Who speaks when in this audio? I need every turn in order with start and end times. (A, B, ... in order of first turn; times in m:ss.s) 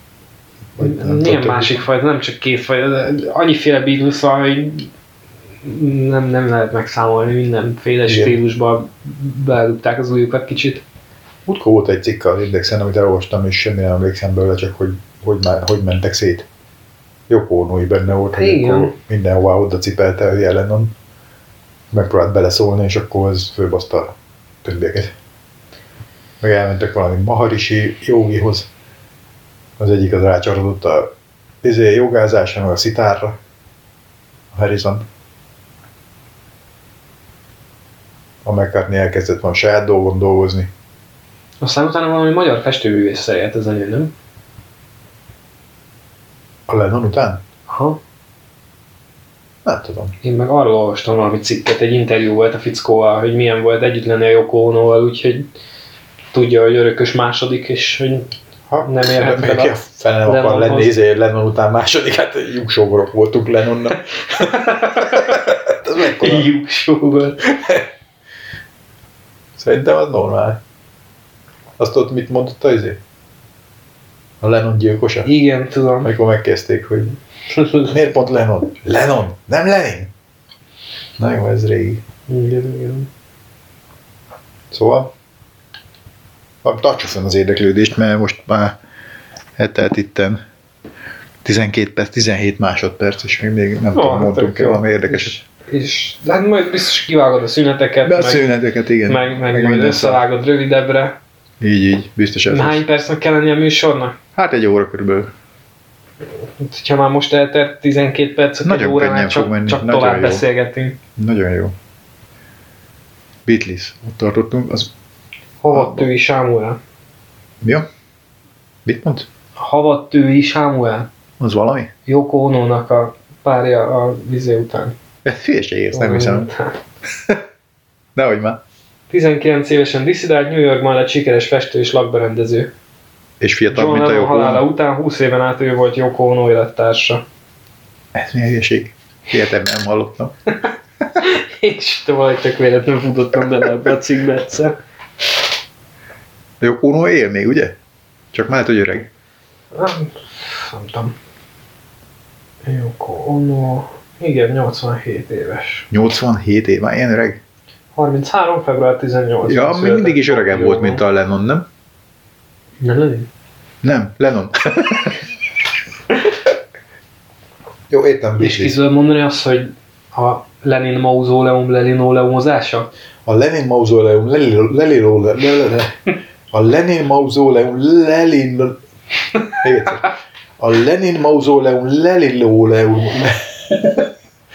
0:00.8-0:01.8 A
0:00.8-0:04.9 B
0:05.6-0:10.8 B
0:08.0-0:08.4 A
0:11.5-0:16.5 A
0:17.3-0:20.9 A
0:18.4-0:18.9 B
0:21.9-0:25.1 A
0:26.4-0:28.7 A
0:29.8-0:31.1 A
0:31.6-0:33.4 A
0:34.5-0:35.0 A
0:38.4-0:40.7 A
0:41.6-0:44.1 B
0:46.7-0:47.4 A
0:47.7-0:48.0 B
0:49.6-0:50.1 A
0:50.2-0:55.5 B
0:56.3-0:58.3 B
0:58.7-1:06.5 A
0:58.8-1:00.9 B
1:04.3-1:05.4 B
1:06.2-1:07.4 B
1:07.4-1:07.8 A
1:09.6-1:10.6 A
1:11.8-1:13.0 A
1:14.4-1:15.3 A
1:15.2-1:16.1 B
1:16.0-1:17.2 A
1:17.5-1:17.9 B
1:17.8-1:20.1 A
1:21.2-1:22.0 A
1:22.3-1:23.1 B
1:24.7-1:25.1 A
1:26.6-1:28.8 A
1:29.6-1:30.4 A
1:31.4-1:35.4 A
1:33.9-1:38.4 B
1:38.0-1:40.2 A
1:39.1-1:41.2 B
1:41.6-1:42.8 A
1:42.5-1:44.2 B
1:44.3-1:45.3 A
1:46.6-1:51.0 B
1:48.6-1:50.5 A
1:51.2-1:51.8 A
1:53.5-1:54.9 A
1:55.6-1:56.8 B
1:55.7-1:56.1 A
1:57.6-1:57.9 A
1:58.8-1:59.3 A
1:59.6-2:01.1 B
2:01.4-2:01.9 A
2:02.0-2:05.0 B
2:05.2-2:06.5 A
2:05.9-2:06.8 B
2:08.2-2:08.6 A
2:09.1-2:12.7 B
2:13.4-2:14.6 A
2:13.7-2:17.2 B
2:18.2-2:20.3 A
2:21.2-2:24.8 B
2:26.6-2:27.8 A
2:28.3-2:29.1 A
2:29.7-2:31.2 B
2:32.6-2:35.9 B
2:35.9-2:37.4 A
2:37.9-2:41.0 B
2:39.4-2:41.7 A
2:42.8-2:43.3 B
2:43.8-2:45.2 A
2:47.9-2:48.8 A
2:48.4-2:52.9 B
2:53.2-2:56.0 A
2:56.5-2:58.8 A
2:59.6-3:04.1 A